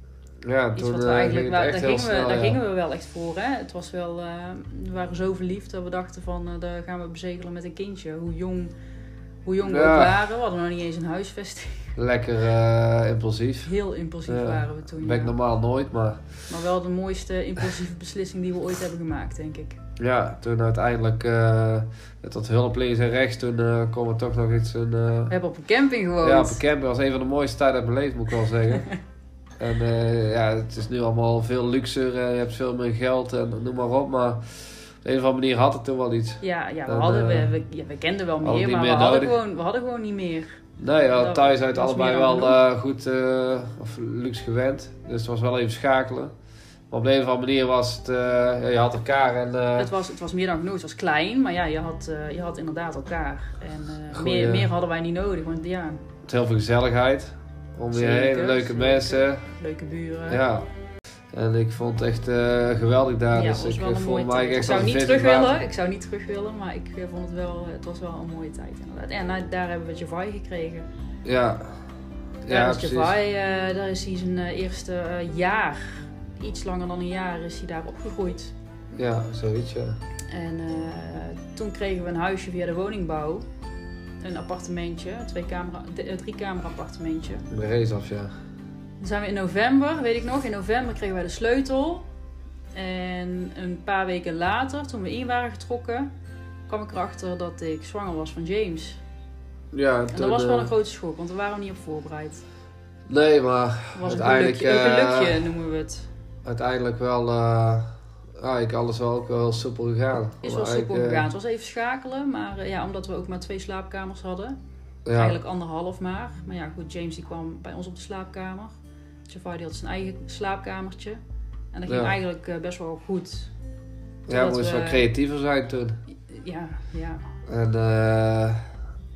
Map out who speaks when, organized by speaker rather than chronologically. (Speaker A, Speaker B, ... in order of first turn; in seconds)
Speaker A: 0.4-2.6, 9.6-10.2, 12.0-13.7, 14.3-16.3, 20.0-25.3, 26.2-28.9, 29.6-37.6, 38.4-39.4, 40.8-46.3, 46.9-49.9, 54.1-54.7, 56.2-59.4, 60.3-60.7, 61.3-65.6, 71.2-71.7, 72.4-73.2, 78.9-80.0, 87.5-88.3, 99.7-100.7, 103.1-105.4, 106.4-111.2, 115.0-115.4, 121.9-122.2, 124.3-126.0, 127.5-128.7
Speaker B: 0.8-8.7, 9.5-11.9, 13.6-15.4, 16.5-19.8, 25.3-26.6, 36.4-40.6, 41.1-42.6, 49.8-56.0, 57.9-60.4, 63.3-70.9, 72.5-78.5, 80.3-83.4, 84.2-87.5, 89.0-92.0, 92.7-96.1, 96.7-99.0, 100.1-102.4, 103.9-106.1, 110.4-114.6, 115.1-118.8, 119.3-121.2, 121.7-123.5, 124.3-125.0, 126.2-127.2